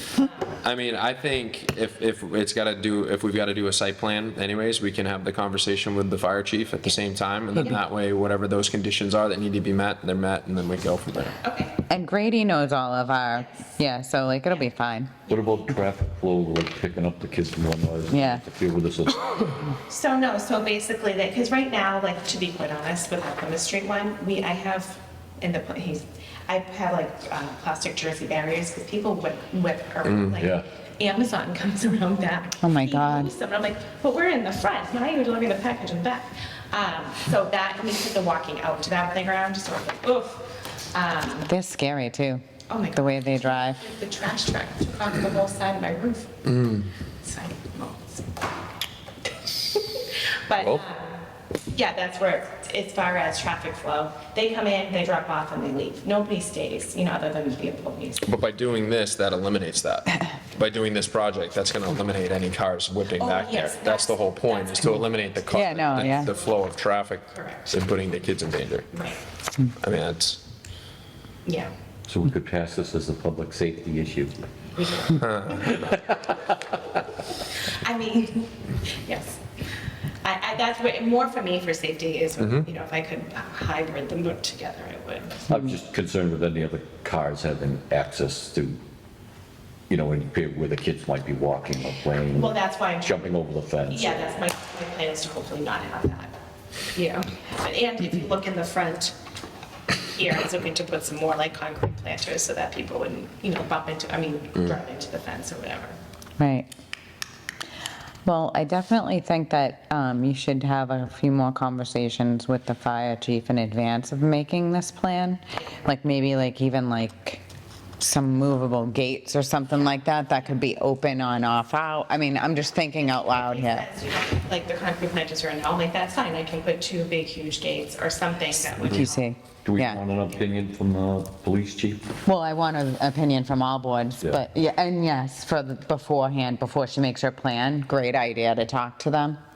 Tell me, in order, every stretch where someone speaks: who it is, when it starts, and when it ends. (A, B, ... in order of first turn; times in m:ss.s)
0:00.2-0:00.5 A
0:00.6-0:11.4 B
0:11.4-0:11.8 A
0:11.9-0:15.2 C
0:15.3-0:19.6 D
0:18.1-0:18.4 C
0:19.8-0:41.5 A
0:30.0-0:30.4 B
0:32.6-0:33.3 C
0:41.5-0:43.8 C
0:42.7-0:46.4 A
0:46.4-0:46.9 B
0:47.2-0:48.4 A
0:49.5-0:58.2 A
0:58.3-1:08.9 B
1:03.2-1:06.5 A
1:05.5-1:06.3 C
1:07.3-1:07.7 A
1:08.9-1:09.2 A
1:09.8-1:10.4 B
1:11.5-1:11.7 A
1:12.1-1:14.5 D
1:14.8-1:16.1 A
1:17.5-1:19.4 A
1:20.2-1:25.5 A
1:25.5-1:28.8 D
1:29.9-1:34.2 D
1:32.3-1:33.3 A
1:33.9-1:36.3 A
1:37.0-1:39.2 A
1:40.1-1:46.0 A
1:46.4-1:46.7 C
1:48.2-1:57.4 C
1:58.0-2:03.9 C
2:03.2-2:09.3 A
2:08.7-2:10.0 C
2:09.6-2:12.1 D
2:12.2-2:19.4 C